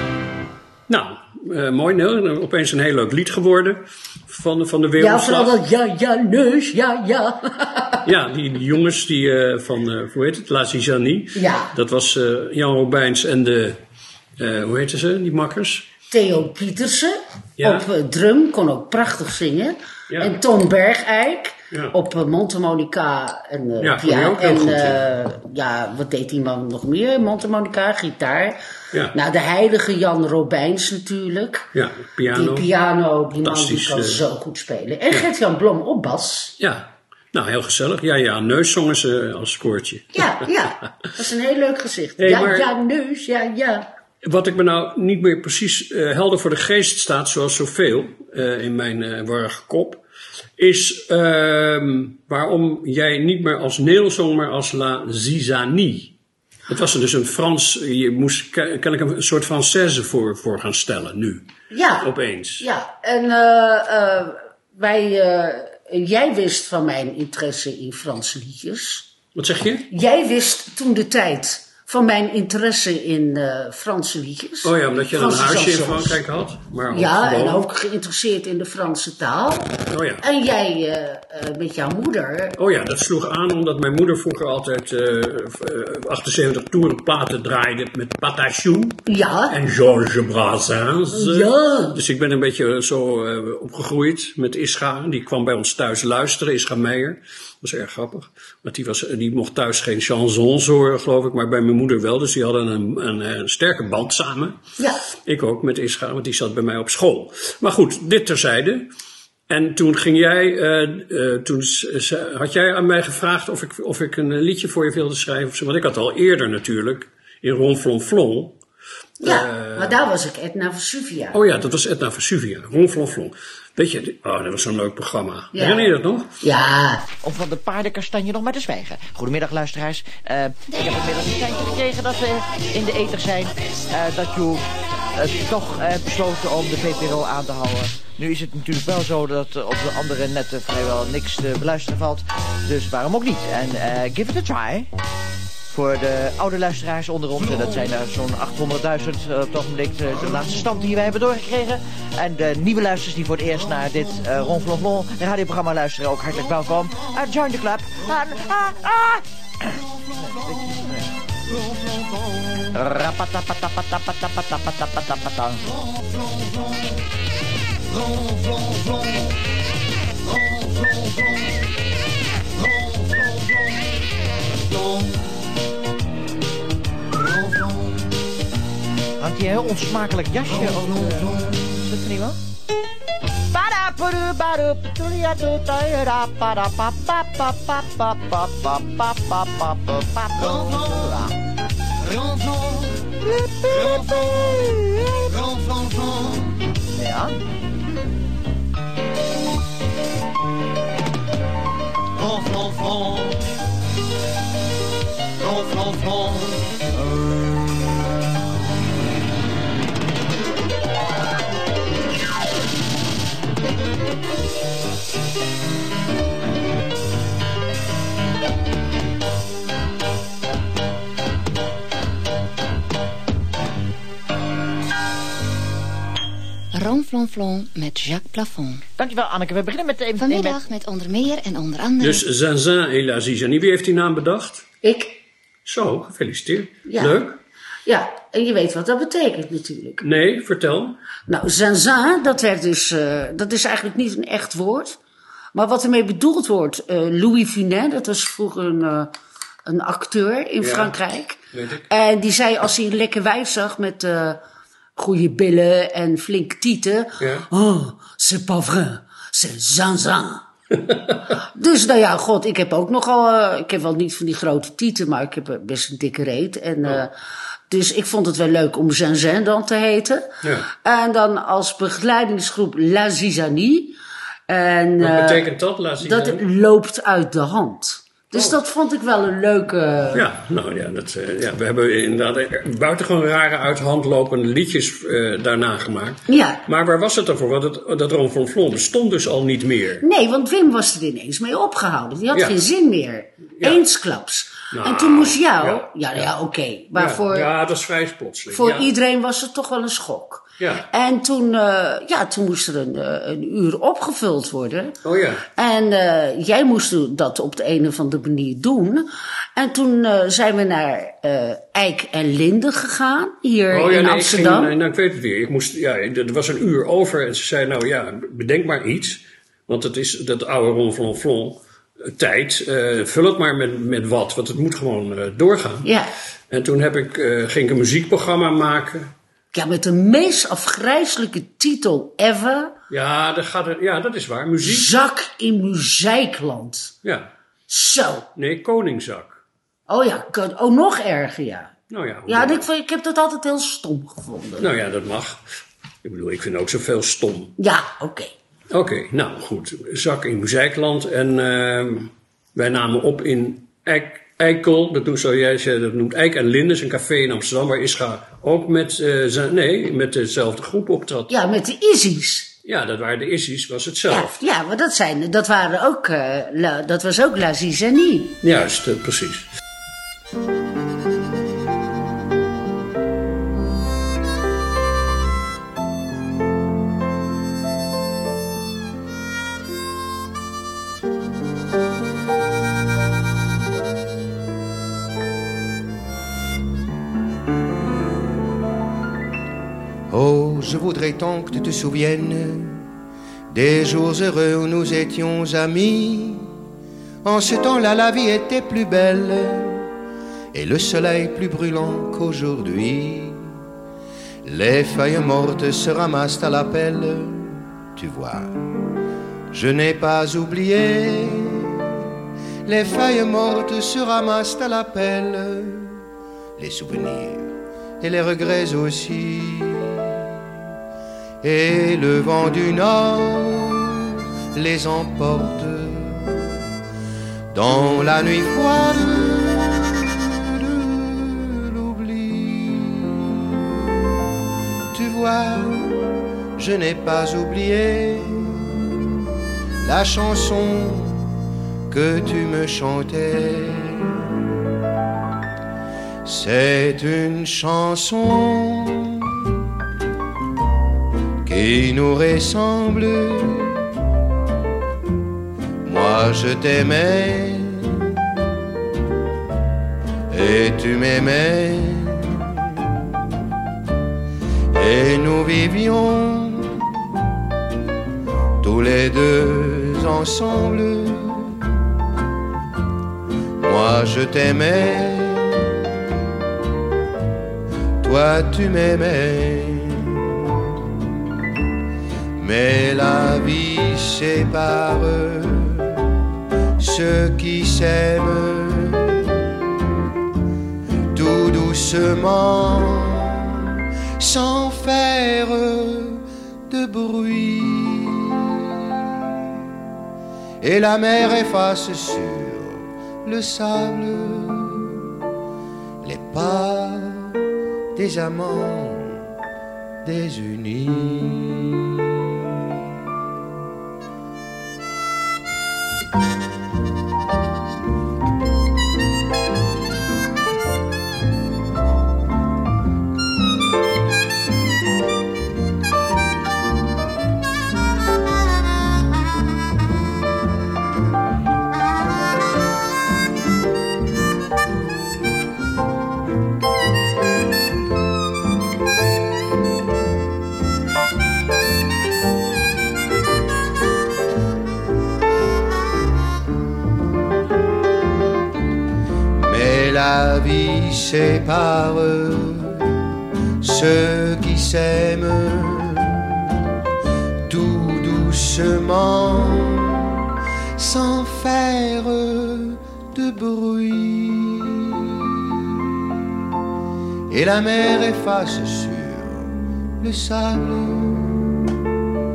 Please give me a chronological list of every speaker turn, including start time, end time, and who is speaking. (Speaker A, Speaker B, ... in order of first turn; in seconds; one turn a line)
Speaker A: 0.9-5.5
Speaker B: 5.0-8.0
Speaker A: 8.1-13.8
Speaker B: 11.3-11.7
Speaker A: 14.4-15.9
Speaker B: 16.1-28.6
Speaker A: 17.6-17.9
Speaker A: 20.1-20.4
Speaker A: 23.8-25.0
Speaker B: 29.1-31.7
Speaker A: 31.8-32.7
Speaker B: 32.3-36.6
Speaker A: 33.4-34.2
Speaker A: 36.6-40.5
Speaker B: 40.1-43.9
Speaker A: 42.2-42.7
Speaker A: 44.2-50.0
Speaker A: 50.6-56.1
Speaker A: 56.7-61.5
Speaker B: 61.7-69.1
Speaker A: 62.0-62.7
Speaker A: 69.3-69.9
Speaker B: 69.9-76.2
Speaker A: 74.6-77.7
Speaker B: 76.9-82.6
Speaker A: 79.9-80.2
Speaker A: 82.6-104.6
Speaker B: 89.1-89.6
Speaker B: 91.1-92.0
Speaker B: 104.8-105.0
Speaker A: 105.3-108.9
Speaker A: 109.5-118.6
Speaker A: 119.2-120.0
Speaker B: 119.2-121.4
Speaker A: 121.3-126.3
Speaker B: 125.5-127.1
Speaker C: 127.2-144.9
Speaker C: 145.7-162.0
Speaker C: 162.6-165.8
Speaker C: 168.0-169.2
Speaker C: 174.7-175.0
Speaker C: 177.2-178.0
Speaker C: 179.2-182.4
Speaker C: 183.5-191.4
Speaker C: 192.0-197.4
Speaker C: 202.2-203.4
Speaker C: 205.4-206.6
Speaker D: 226.7-228.8
Speaker C: 229.0-230.6
Speaker D: 230.2-232.2
Speaker A: 232.0-234.7
Speaker B: 234.8-235.2
Speaker A: 235.7-237.4
Speaker B: 236.9-237.2
Speaker B: 237.9-240.0
Speaker A: 240.0-241.0
Speaker B: 241.3-245.0
Speaker B: 245.5-249.1
Speaker B: 249.7-254.4
Speaker A: 250.6-251.0
Speaker A: 251.5-251.9
Speaker B: 255.0-260.4
Speaker A: 257.2-257.5
Speaker B: 261.4-267.1
Speaker B: 267.7-275.5
Speaker A: 270.4-270.7
Speaker A: 275.0-276.4
Speaker B: 276.0-280.3
Speaker A: 280.1-290.0
Speaker B: 286.3-286.6
Speaker B: 290.0-297.5
Speaker A: 294.7-296.3
Speaker A: 296.9-298.9
Speaker B: 298.5-305.0
Speaker A: 300.6-300.9
Speaker A: 305.0-305.5
Speaker B: 305.6-314.7
Speaker A: 313.7-325.9
Speaker B: 325.8-326.1
Speaker A: 326.5-329.1
Speaker B: 329.5-332.8
Speaker A: 332.9-334.9
Speaker B: 334.6-336.9
Speaker A: 337.0-337.3
Speaker B: 337.7-338.3
Speaker A: 338.4-339.4
Speaker B: 339.9-341.7
Speaker A: 341.9-342.7
Speaker B: 342.3-344.7
Speaker A: 344.6-345.4
Speaker A: 346.0-347.6
Speaker B: 347.6-348.3
Speaker A: 348.7-361.3
Speaker B: 361.3-362.5
Speaker A: 362.6-364.4
Speaker B: 364.1-368.4
Speaker A: 368.4-369.5
Speaker E: 390.1-392.9
Speaker E: 393.5-396.5
Speaker E: 397.2-399.9
Speaker E: 400.5-403.6
Speaker E: 404.4-408.6
Speaker E: 409.5-411.9
Speaker E: 412.7-416.0
Speaker E: 416.6-420.2
Speaker E: 421.4-426.5
Speaker E: 427.5-433.6
Speaker E: 434.9-438.8
Speaker E: 439.8-441.3
Speaker E: 441.9-444.2
Speaker E: 446.2-449.6
Speaker E: 451.5-453.8
Speaker E: 455.8-458.3
Speaker E: 460.3-463.0
Speaker E: 464.7-466.9
Speaker E: 468.6-471.9
Speaker E: 473.6-475.9
Speaker E: 478.0-480.6
Speaker E: 482.4-486.1
Speaker E: 486.8-489.6
Speaker E: 491.1-498.8
Speaker E: 500.6-505.0
Speaker E: 506.0-507.4
Speaker E: 508.0-509.2
Speaker E: 510.0-512.1
Speaker E: 549.4-553.1
Speaker E: 553.6-556.5
Speaker E: 557.5-560.1
Speaker E: 560.8-565.7
Speaker E: 567.3-571.5